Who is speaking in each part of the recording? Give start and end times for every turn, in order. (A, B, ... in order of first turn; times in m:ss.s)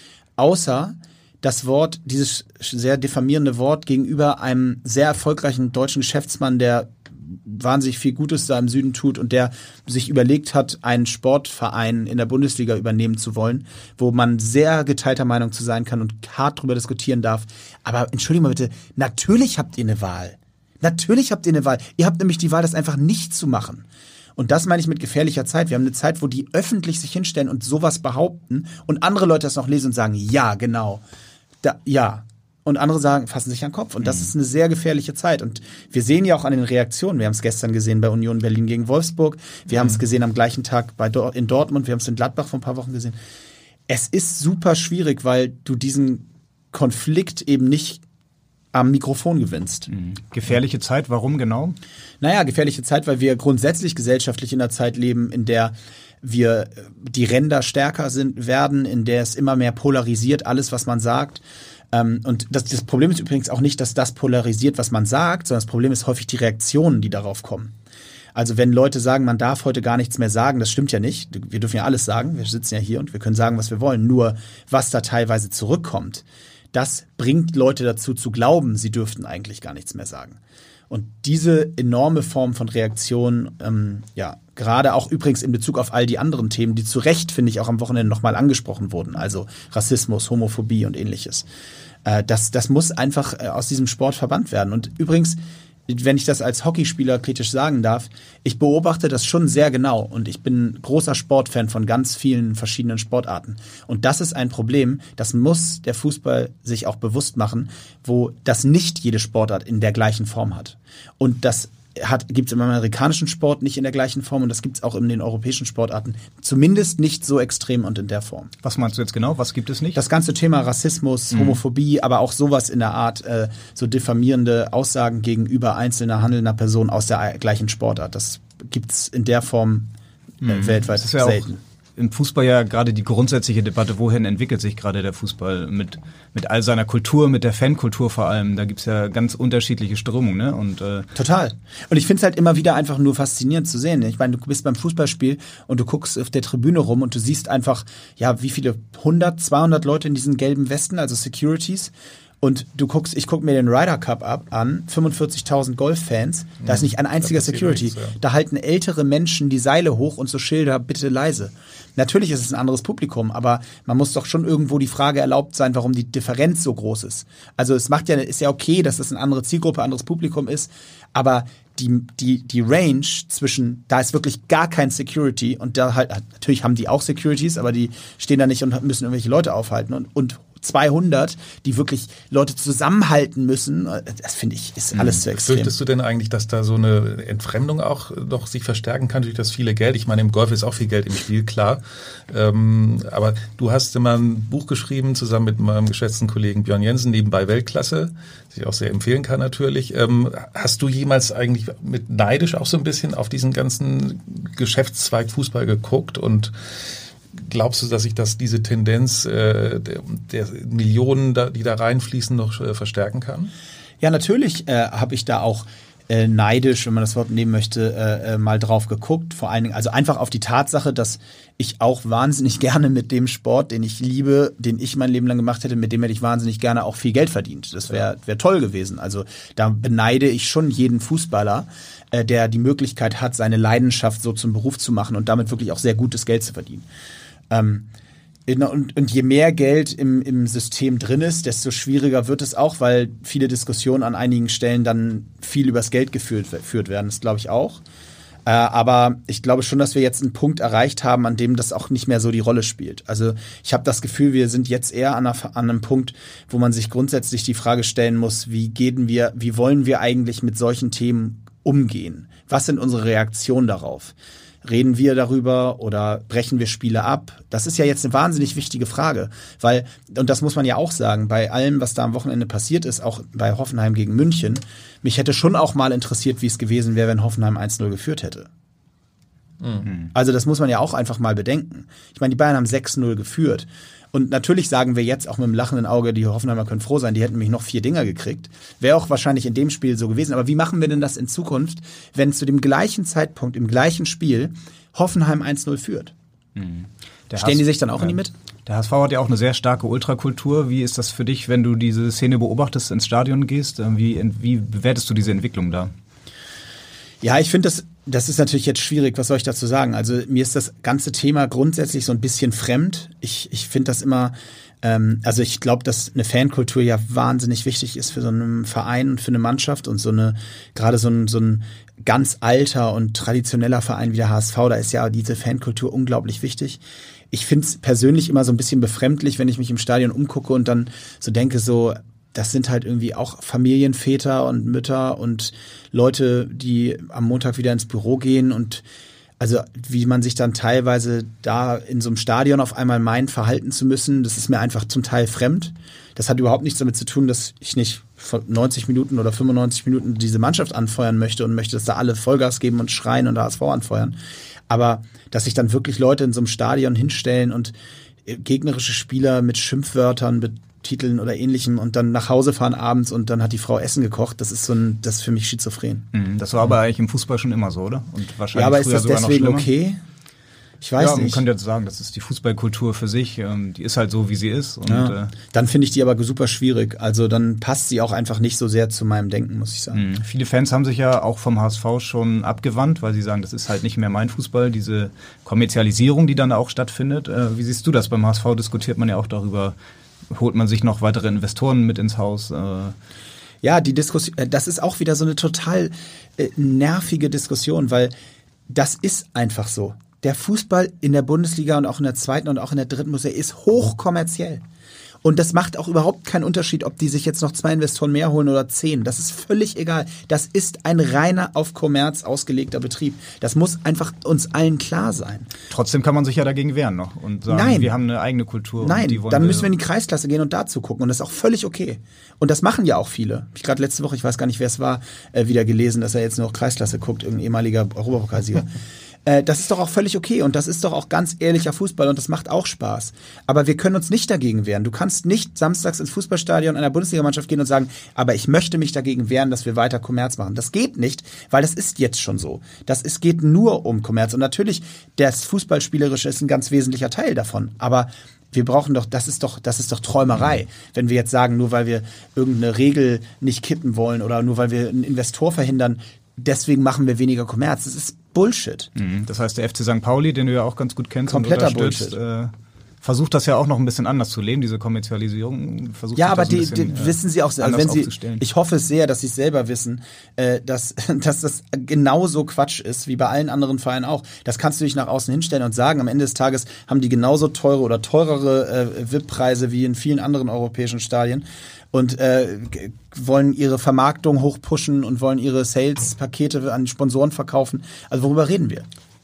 0:00.4-0:31.0 A
0:31.6-0:43.2 A
0:43.9-0:48.0 A
0:48.7-0:49.9 A
0:49.9-0:51.8 B
0:52.2-1:07.7 A
1:08.3-1:20.4 A
1:20.9-1:31.5 A
1:32.0-1:58.5 A
1:58.6-2:00.0 B
1:59.9-2:11.6 A
2:10.4-2:21.1 B
2:21.1-3:05.7 A
2:36.6-2:38.2 C
3:04.9-3:05.2 B
3:05.3-3:26.5 C
3:27.3-3:33.5 C
3:34.0-3:56.9 A
3:57.5-3:57.9 A
3:58.5-4:07.8 A
4:08.4-4:38.5 A
4:40.1-4:56.1 A
4:56.6-5:05.9 B
4:57.4-4:58.3 A
5:07.2-5:38.8 A
5:39.4-5:54.2 A
5:54.7-5:57.7 A
5:58.2-6:06.1 A
6:06.1-6:09.7 B
6:08.5-6:10.0 A
6:10.8-6:11.4 A
6:11.0-6:15.3 B
6:14.9-6:20.0 A
6:19.9-6:29.7 B
6:30.3-6:32.9 B
6:33.6-6:38.1 A
6:38.7-6:44.6 A
6:45.2-6:55.5 A
6:55.7-6:59.7 B
6:57.5-6:57.9 A
6:58.8-7:08.7 A
7:09.2-7:38.9 A
7:39.0-7:48.4 B
7:41.3-7:42.2 A
7:46.2-8:08.9 A